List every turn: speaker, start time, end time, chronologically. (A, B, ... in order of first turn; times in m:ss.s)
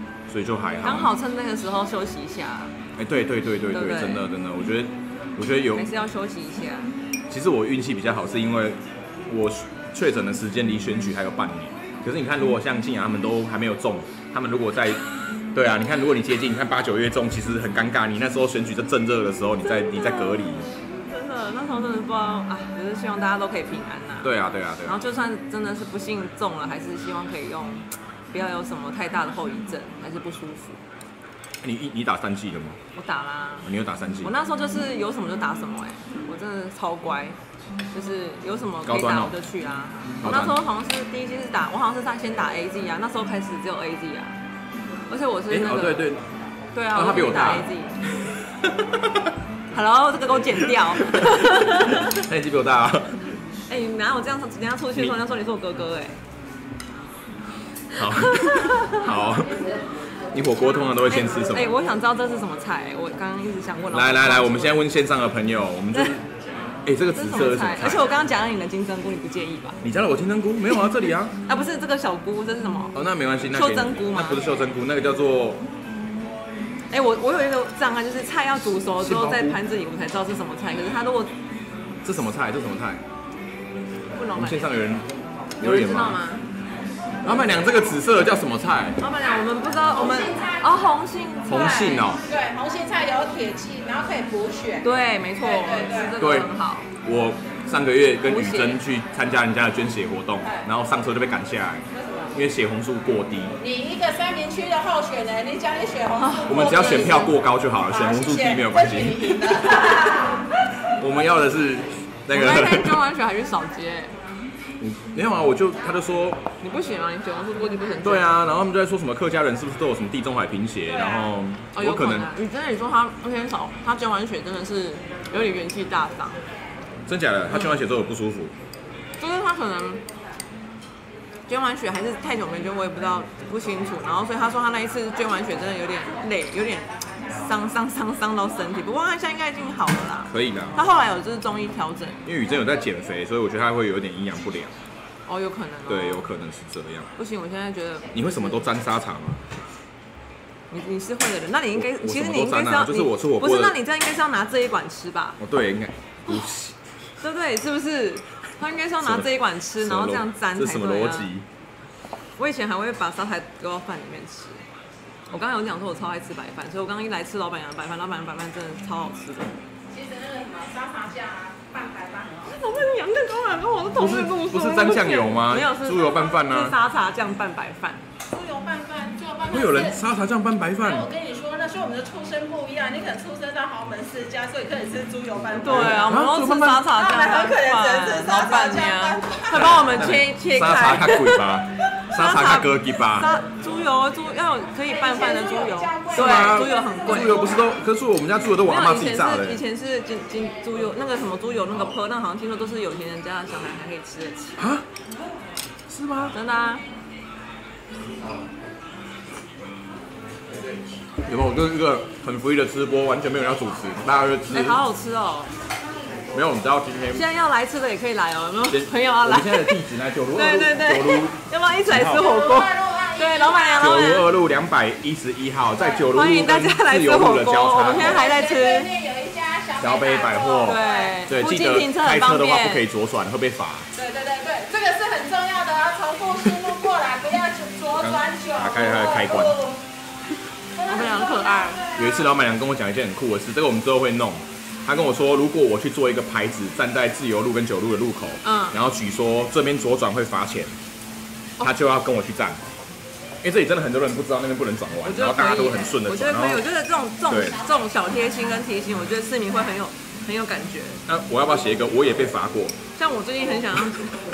0:00.3-0:01.1 A
0:00.8-0:02.7 B
0:03.0-0:05.9 A
0:03.7-0:04.2 B
0:05.8-0:06.9 B
0:07.3-0:15.0 A
0:15.5-0:20.7 A
0:19.6-0:30.8 B
0:24.2-0:25.0 A
0:31.6-0:32.8 A
0:33.0-0:33.7 B
0:33.6-0:34.3 A
0:34.2-0:37.4 B
0:37.9-0:44.4 B
0:38.9-0:39.4 A
0:40.2-0:40.6 A
0:45.1-0:46.0 B
0:45.5-0:46.2 A
0:46.8-0:48.0 B
0:46.9-0:47.7 A
0:48.7-0:49.3 A
0:49.7-0:52.2 B
0:50.9-0:53.2 A
0:53.7-0:56.2 B
0:58.0-0:59.6 A
0:58.0-0:59.1 B
1:00.3-1:01.8 A
1:01.1-1:04.8 B
1:03.9-1:06.2 A
1:06.8-1:08.1 A
1:07.1-1:09.8 B
1:09.8-1:11.4 A
1:11.5-1:13.0 B
1:12.9-1:15.6 A
1:13.5-1:14.4 B
1:16.9-1:21.3 B
1:19.0-1:19.6 A
1:22.0-1:23.0 A
1:24.2-1:24.7 B
1:24.4-1:25.1 A
1:25.6-1:26.2 A
1:25.6-1:26.4 B
1:27.2-1:29.0 A
1:29.0-1:32.1 B
1:29.9-1:30.8 C
1:31.5-1:32.2 A
1:31.5-1:34.9 C
1:34.8-1:36.9 B
1:35.4-1:36.2 C
1:36.2-1:36.5 A
1:37.0-1:43.5 A
1:38.2-1:38.8 B
1:40.4-1:40.7 C
1:41.9-1:42.4 C
1:43.6-1:50.4 C
1:46.2-1:47.3 B
1:46.5-1:50.1 A
1:51.0-1:53.0 A
1:52.3-1:54.1 B
1:54.8-1:56.4 A
1:56.6-1:58.3 B
1:58.0-2:02.3 A
2:00.9-2:01.3 C
2:01.7-2:06.4 B
2:07.1-2:08.5 A
2:09.2-2:10.0 B
2:11.5-2:16.9 B
2:17.4-2:22.2 B
2:20.3-2:20.8 A
2:22.2-2:24.7 A
2:25.3-2:26.3 B
2:25.9-2:27.1 A
2:27.2-2:28.3 B
2:28.1-2:29.4 A
2:30.7-2:35.4 B
2:31.7-2:33.8 A
2:35.4-2:36.8 A
2:37.2-2:41.3 B
2:39.0-2:41.5 A
2:42.4-2:44.6 B
2:45.3-2:49.5 B
2:49.9-2:52.6 C
2:52.5-2:58.0 B
2:54.0-2:56.8 A
2:58.3-3:00.0 C
2:59.5-3:01.1 A
3:00.8-3:06.2 C
3:05.6-3:11.5 B
3:05.7-3:06.9 A
3:06.9-3:09.8 C
3:09.5-3:13.3 A
3:12.1-3:17.5 B
3:14.8-3:17.7 C
3:16.1-3:19.6 A
3:18.6-3:24.6 B
3:24.6-3:24.8 A
3:25.9-3:26.4 A
3:26.3-3:26.8 B
3:31.3-3:34.8 A
3:34.5-3:35.5 B
3:36.3-3:37.2 A
3:37.1-3:44.3 B
3:38.7-3:42.3 A
3:42.0-3:44.0 C
3:43.8-3:48.2 A
3:45.8-3:46.1 C
3:46.1-3:48.9 B
3:47.9-3:51.2 C
3:49.8-3:53.9 A
3:50.6-3:52.8 B
3:54.0-3:59.8 C
3:58.0-3:59.6 A
4:00.8-4:02.3 C
4:00.9-4:01.8 B
4:02.0-4:10.7 A
4:08.4-4:08.8 B
4:11.6-4:12.6 A
4:13.4-4:16.6 A
4:15.0-4:21.0 B
4:17.3-4:17.6 A
4:21.1-4:22.8 A
4:23.0-4:24.1 B